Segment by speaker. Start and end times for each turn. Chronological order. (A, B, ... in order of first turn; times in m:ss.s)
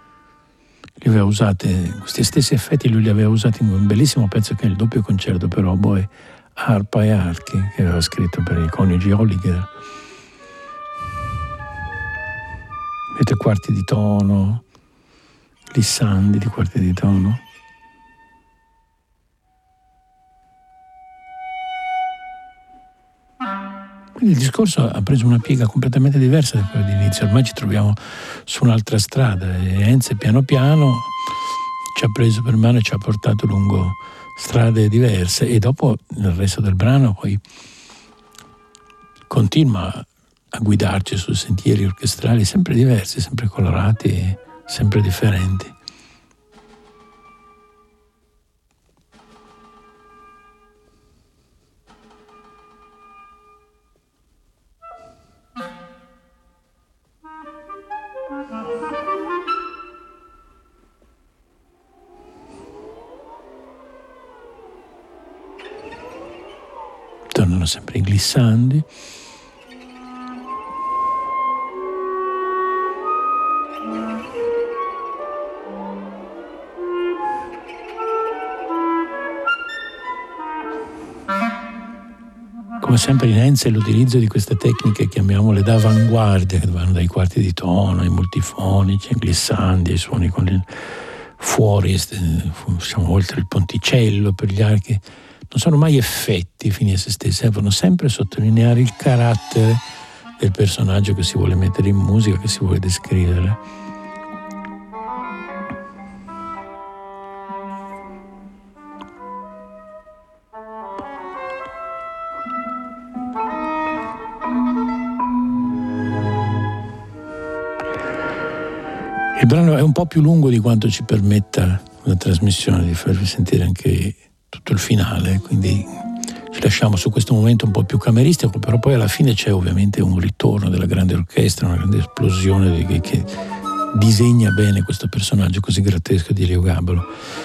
0:01.0-0:09.7 A
0:13.1-0:14.6 A
0:15.7-0:17.4 A
0:24.2-0:31.1 A
0:32.0-0:37.4 A
0:39.3-0:45.8 A
1:07.3-1:08.9 A
1:22.8-1:30.7 A
1:31.4-1:39.8 A
1:40.4-1:43.6 A
1:59.4-2:13.3 A
2:13.9-2:17.1 A